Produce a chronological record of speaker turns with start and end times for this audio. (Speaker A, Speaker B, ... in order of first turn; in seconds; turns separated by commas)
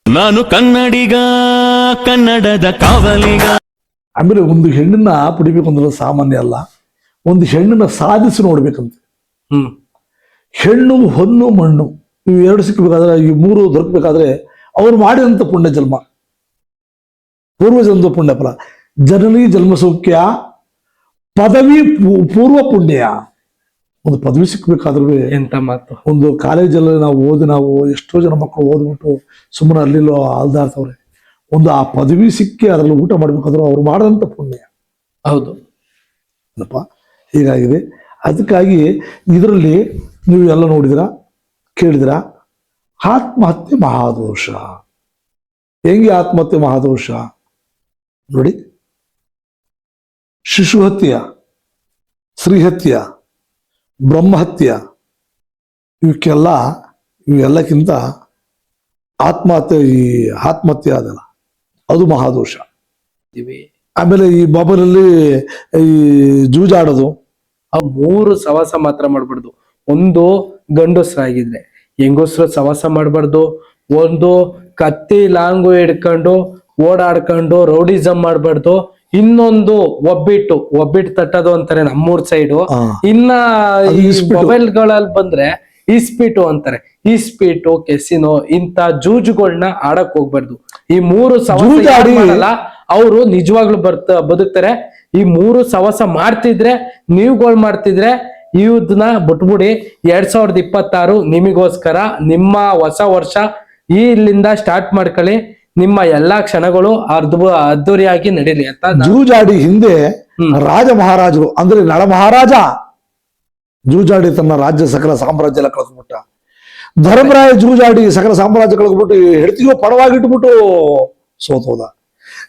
Speaker A: 0.1-3.6, Speaker B: 4.2-6.6, Speaker B: 7.3-9.0, Speaker B: 10.6-16.0, Speaker B: 17.6-18.5, Speaker B: 19.1-20.3, Speaker B: 21.4-23.1, Speaker B: 24.1-25.2, Speaker C: 25.3-26.0, Speaker B: 26.1-31.0, Speaker B: 31.5-34.7, Speaker C: 35.3-35.6, Speaker B: 36.6-36.8, Speaker B: 37.4-41.1, Speaker B: 41.8-42.2, Speaker B: 43.0-44.6, Speaker B: 45.9-47.2, Speaker B: 48.3-48.6, Speaker B: 50.5-51.2, Speaker B: 52.4-53.0, Speaker B: 54.1-54.8, Speaker B: 56.0-56.6, Speaker B: 57.3-58.0, Speaker B: 59.2-61.2, Speaker B: 61.9-62.6, Speaker C: 63.3-63.6, Speaker B: 64.0-67.1, Speaker C: 67.8-109.2, Speaker B: 82.7-83.0, Speaker B: 83.9-84.6, Speaker B: 91.5-92.5, Speaker B: 109.0-110.0, Speaker B: 110.6-112.7, Speaker B: 113.9-116.2, Speaker B: 117.0-121.9, Speaker C: 117.1-117.5